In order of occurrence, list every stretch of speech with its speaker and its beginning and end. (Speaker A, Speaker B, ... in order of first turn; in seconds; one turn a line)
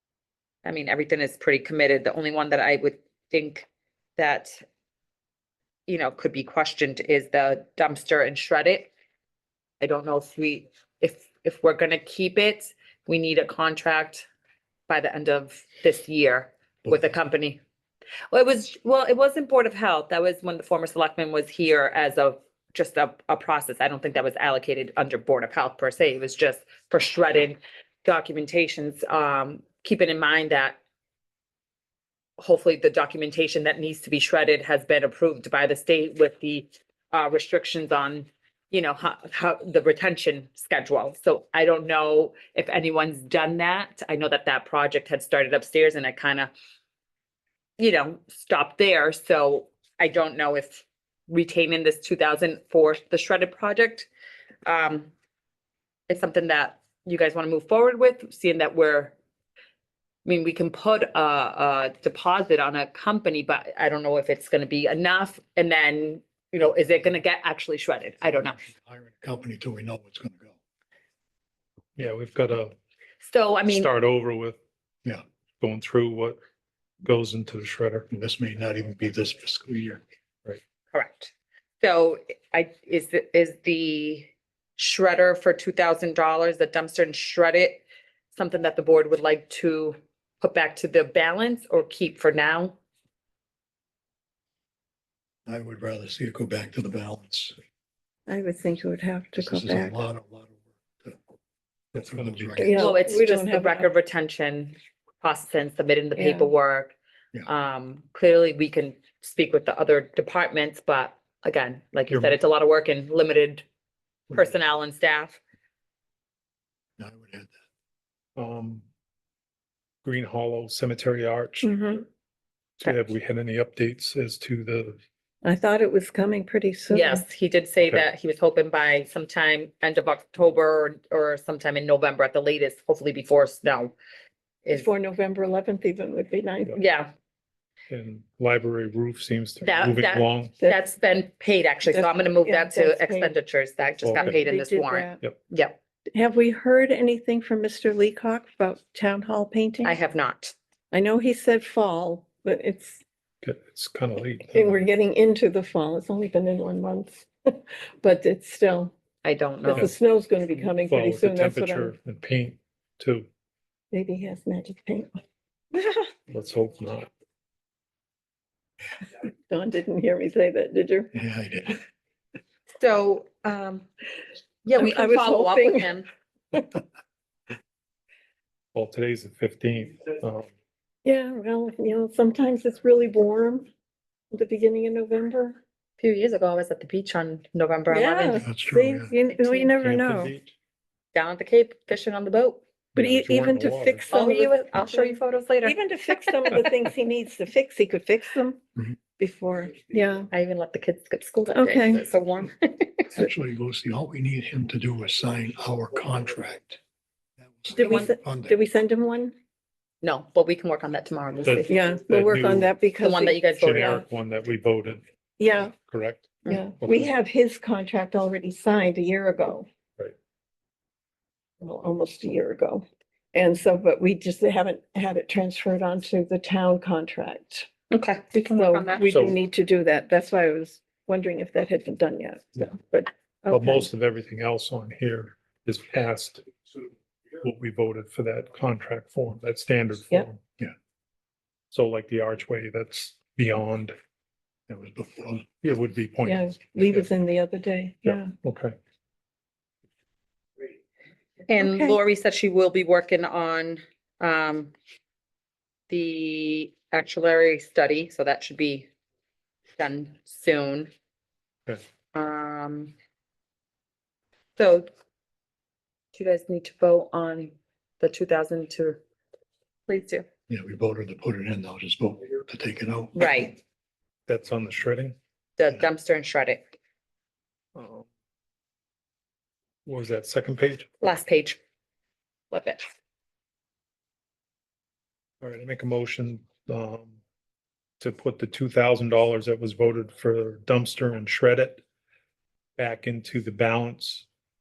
Speaker A: 0.6-4.5
Speaker A: 5.9-8.9
Speaker A: 9.8-14.3
Speaker A: 14.9-17.6
Speaker A: 18.3-30.8
Speaker A: 32.4-46.5
Speaker A: 47.8-54.1
Speaker A: 54.6-55.1
Speaker A: 56.1-59.1
Speaker A: 60.2-68.6
Speaker B: 68.7-70.5
Speaker C: 72.0-72.7
Speaker A: 73.2-73.9
Speaker C: 73.7-74.6
Speaker C: 75.6-76.4
Speaker C: 77.0-78.1
Speaker B: 78.1-80.0
Speaker A: 80.9-87.8
Speaker A: 88.3-92.8
Speaker B: 95.5-97.5
Speaker D: 98.3-100.0
Speaker B: 99.3-101.2
Speaker B: 101.9-102.8
Speaker C: 101.9-103.0
Speaker D: 102.6-103.9
Speaker A: 102.7-113.6
Speaker D: 106.2-106.5
Speaker C: 112.1-112.3
Speaker A: 114.3-115.4
Speaker B: 117.0-117.5
Speaker C: 118.3-118.8
Speaker C: 120.0-121.7
Speaker D: 121.6-122.0
Speaker C: 122.8-125.0
Speaker D: 125.4-127.2
Speaker A: 126.9-133.9
Speaker D: 134.7-136.8
Speaker A: 136.7-137.1
Speaker C: 137.9-140.6
Speaker A: 139.6-145.8
Speaker D: 141.9-143.3
Speaker C: 144.0-144.4
Speaker D: 144.2-145.2
Speaker D: 146.1-150.0
Speaker A: 149.8-150.5
Speaker D: 150.9-153.0
Speaker C: 153.4-154.8
Speaker D: 154.5-158.9
Speaker A: 159.2-159.9
Speaker D: 159.7-161.9
Speaker C: 160.7-163.3
Speaker D: 163.9-165.1
Speaker D: 165.7-166.1
Speaker C: 166.3-167.1
Speaker D: 169.5-171.1
Speaker B: 171.1-171.8
Speaker A: 172.7-173.9
Speaker A: 174.6-176.1
Speaker D: 174.8-175.9
Speaker C: 178.7-180.5
Speaker D: 181.0-183.7
Speaker D: 184.3-185.6
Speaker A: 186.0-188.4
Speaker D: 187.9-190.3
Speaker B: 188.4-189.1
Speaker A: 189.3-189.7
Speaker C: 189.7-190.5
Speaker A: 191.1-192.6
Speaker C: 192.9-194.0
Speaker D: 192.9-198.6
Speaker A: 194.1-196.7
Speaker D: 199.2-200.3
Speaker A: 200.3-203.1
Speaker D: 201.5-202.1
Speaker B: 203.1-206.8
Speaker B: 207.4-208.6
Speaker D: 207.7-209.3
Speaker A: 207.7-208.1
Speaker A: 210.0-211.7
Speaker C: 211.4-212.7
Speaker D: 211.7-213.4
Speaker A: 213.0-214.0
Speaker C: 213.6-215.0
Speaker D: 215.4-215.7
Speaker C: 215.6-217.1
Speaker D: 216.5-219.7
Speaker D: 221.6-227.7
Speaker A: 227.9-229.1
Speaker D: 228.5-233.8
Speaker C: 229.1-229.3
Speaker C: 233.5-236.4
Speaker C: 237.4-240.4
Speaker C: 241.7-243.9
Speaker B: 244.7-245.4
Speaker C: 245.6-247.1
Speaker D: 246.2-248.3
Speaker C: 248.0-248.8
Speaker A: 251.5-254.7
Speaker D: 251.6-251.9
Speaker A: 255.9-258.9
Speaker A: 259.8-260.9
Speaker A: 262.1-262.9
Speaker A: 264.6-264.9
Speaker A: 266.1-269.0
Speaker A: 269.9-270.2
Speaker B: 270.5-273.1
Speaker A: 273.1-273.6
Speaker C: 274.3-275.1
Speaker A: 275.6-276.6
Speaker C: 277.7-278.1
Speaker C: 279.9-280.9
Speaker A: 281.0-281.6
Speaker A: 282.5-282.9
Speaker C: 285.4-287.1
Speaker C: 288.0-291.8
Speaker C: 292.8-294.3